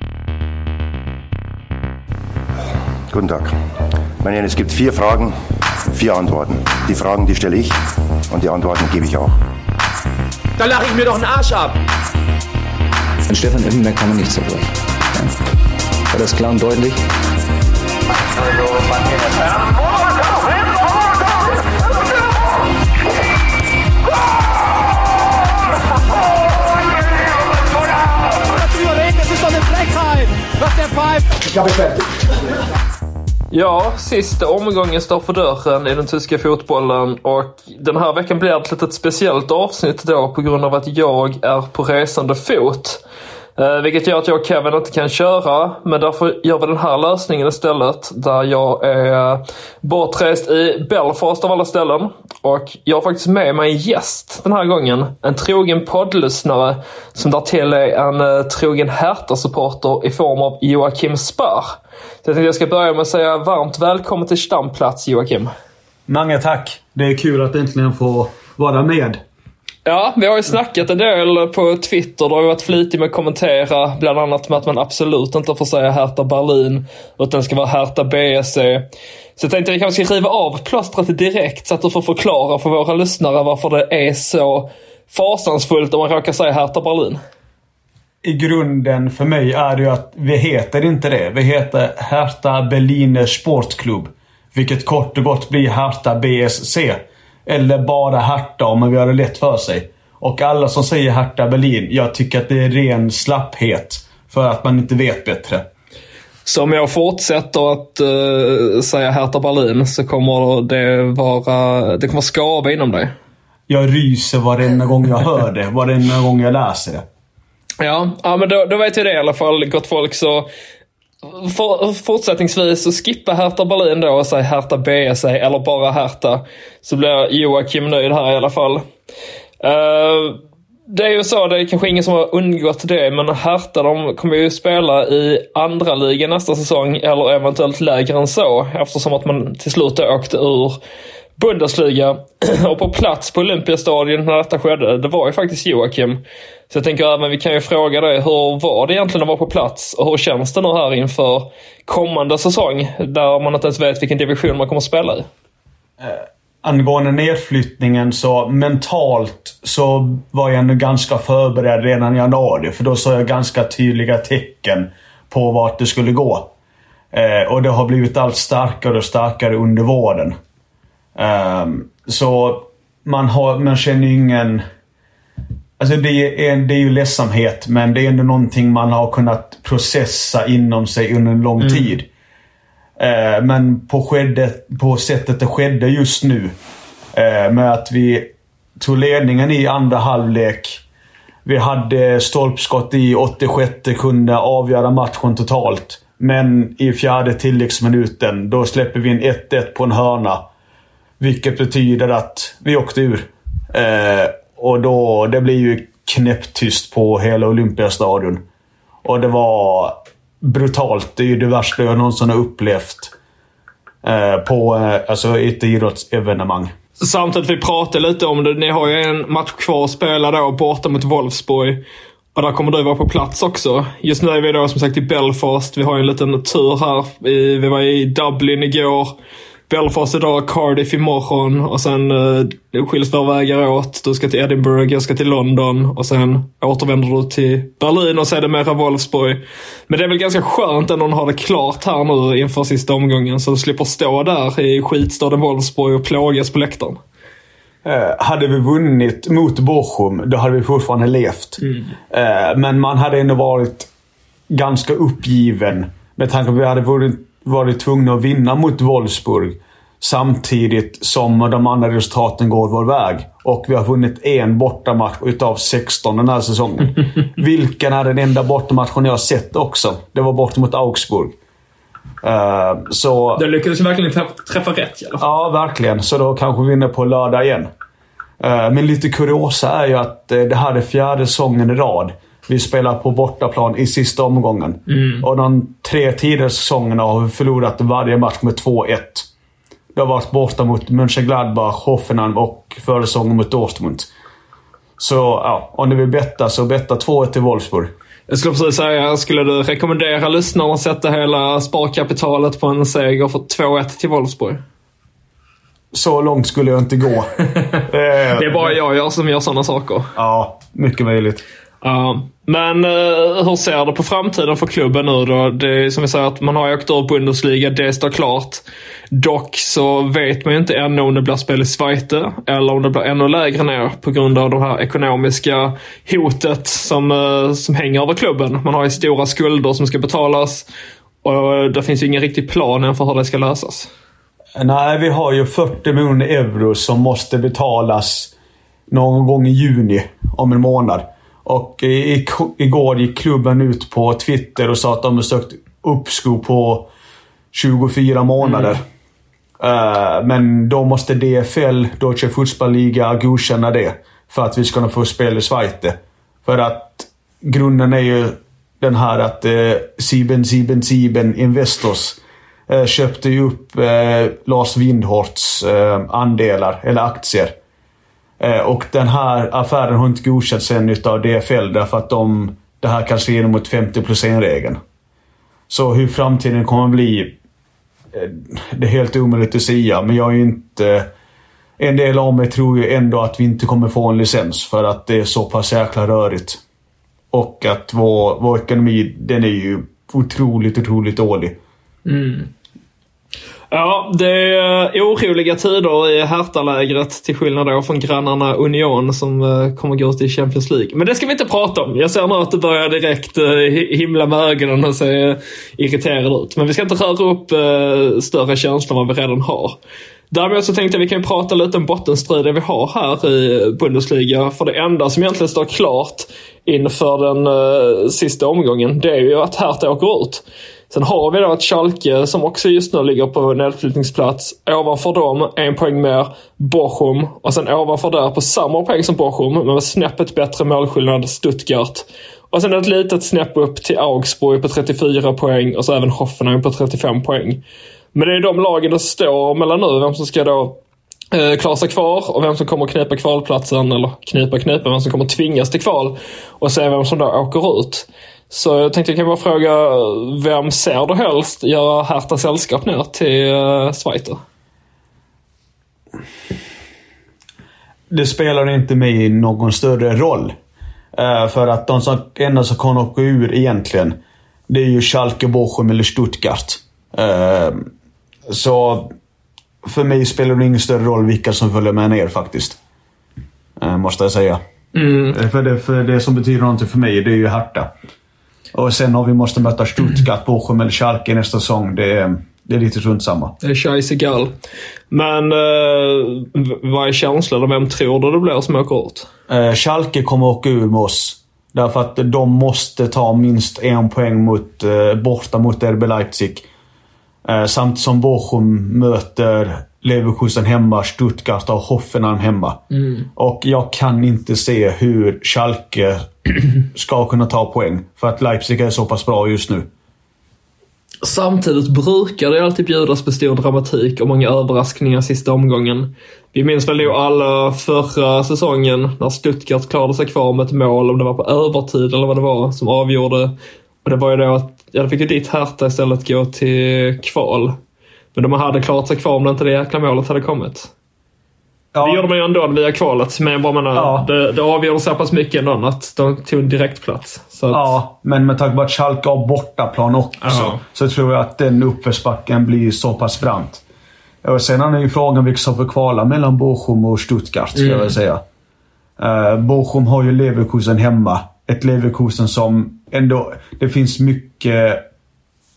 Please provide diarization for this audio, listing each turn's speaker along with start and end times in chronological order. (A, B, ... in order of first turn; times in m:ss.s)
0:03.1-0:03.5 A
0:04.2-0:05.3 A
0:05.9-0:07.8 A
0:08.3-0:09.4 A
0:10.6-0:11.8 B
0:13.3-0:15.3 C
0:16.1-0:17.1 C
0:28.5-0:32.4 B
0:33.5-0:43.0 D
0:43.6-1:05.5 D
1:06.1-1:09.2 E
1:09.8-1:27.2 D
1:28.2-1:45.6 E
1:46.4-1:53.1 D
1:53.7-1:57.0 E
1:57.8-2:00.5 D
2:01.2-2:08.8 D
2:09.6-2:20.8 D
2:21.4-2:35.3 D
2:36.0-2:46.5 E
2:47.1-2:50.3 E
2:51.2-2:54.6 E
2:55.8-3:02.1 E
3:01.6-3:01.9 D
3:03.0-3:06.5 E
3:07.1-3:10.8 E
3:11.4-3:20.4 E
3:21.2-3:28.4 E
3:29.0-3:33.1 E
3:34.0-3:36.7 E
3:37.0-3:41.8 D
3:42.3-3:49.2 D
3:49.7-4:07.0 D
4:07.8-4:13.9 E
4:14.5-4:31.3 E
4:32.2-4:33.4 E
4:33.4-4:35.2 D
4:35.2-4:37.7 E
4:38.4-4:49.3 E
4:44.9-4:45.2 D
4:49.9-4:54.1 E
4:55.0-4:57.9 E
4:58.3-5:04.6 D
5:05.9-5:08.8 E
5:08.3-5:10.1 D
5:10.2-5:11.4 E
5:11.8-5:30.6 D
5:31.2-5:33.9 D
5:34.6-5:38.3 E
5:38.9-5:46.9 E
5:47.5-5:48.8 E
5:48.4-5:48.8 D
5:49.6-6:07.6 E
6:08.4-6:14.8 E
6:15.7-6:17.4 E
6:18.1-6:21.1 E
6:21.8-6:26.6 E
6:27.3-6:31.6 E
6:32.0-6:32.5 D
6:33.7-6:49.8 D
6:50.3-7:17.6 D
7:18.1-7:20.8 D
7:21.3-7:34.4 D
7:38.1-7:40.5 E
7:41.1-7:47.9 E
7:48.5-7:49.1 E
7:49.8-7:52.8 E
7:53.8-7:54.6 E
7:54.9-7:55.4 D
7:55.3-7:57.9 E
7:58.7-8:03.5 E
8:03.6-8:04.5 D
8:05.1-8:09.3 D
8:09.5-8:16.7 E
8:17.4-8:22.8 E
8:22.9-8:23.3 D
8:23.4-8:29.9 E
8:31.2-8:43.5 D
8:44.0-8:47.8 D
8:48.3-8:50.9 D
8:51.9-8:52.3 E
8:52.0-8:58.0 D
8:53.9-8:54.3 E
8:57.7-9:03.8 E
9:00.4-9:00.8 D
9:04.4-9:08.4 E
9:07.7-9:08.2 D
9:09.2-9:15.0 E